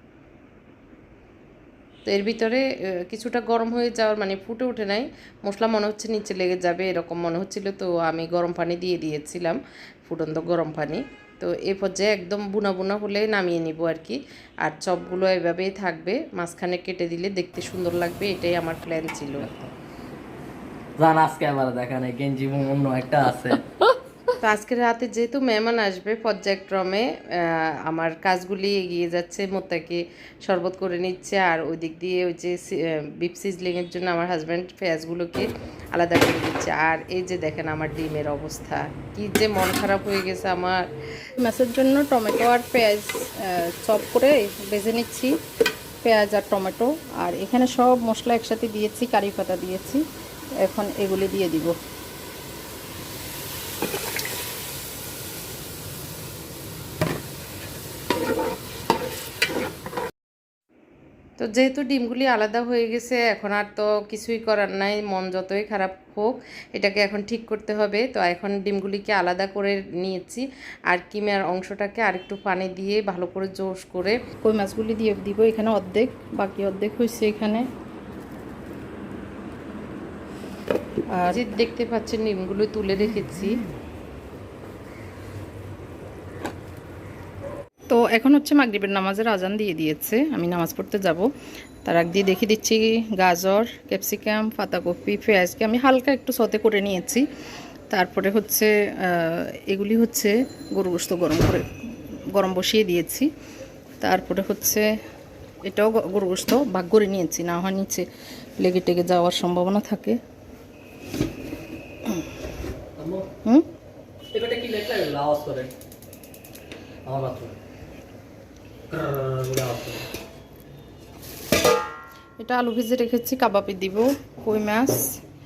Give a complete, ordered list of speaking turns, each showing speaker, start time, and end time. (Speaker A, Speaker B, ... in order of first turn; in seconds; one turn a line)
Speaker A: 2.1-19.5
Speaker B: 19.4-19.7
Speaker B: 21.0-23.7
Speaker A: 24.4-40.8
Speaker C: 41.4-45.3
Speaker C: 46.0-50.0
Speaker C: 50.6-51.8
Speaker A: 61.4-74.2
Speaker C: 74.4-77.7
Speaker C: 81.1-81.5
Speaker A: 81.3-83.6
Speaker C: 87.9-91.3
Speaker C: 91.8-97.2
Speaker C: 97.9-101.7
Speaker C: 102.3-103.3
Speaker C: 104.0-104.9
Speaker C: 105.6-108.1
Speaker C: 108.6-110.2
Speaker B: 113.0-113.2
Speaker B: 114.3-115.7
Speaker B: 117.1-117.6
Speaker B: 118.9-120.1
Speaker C: 122.4-125.2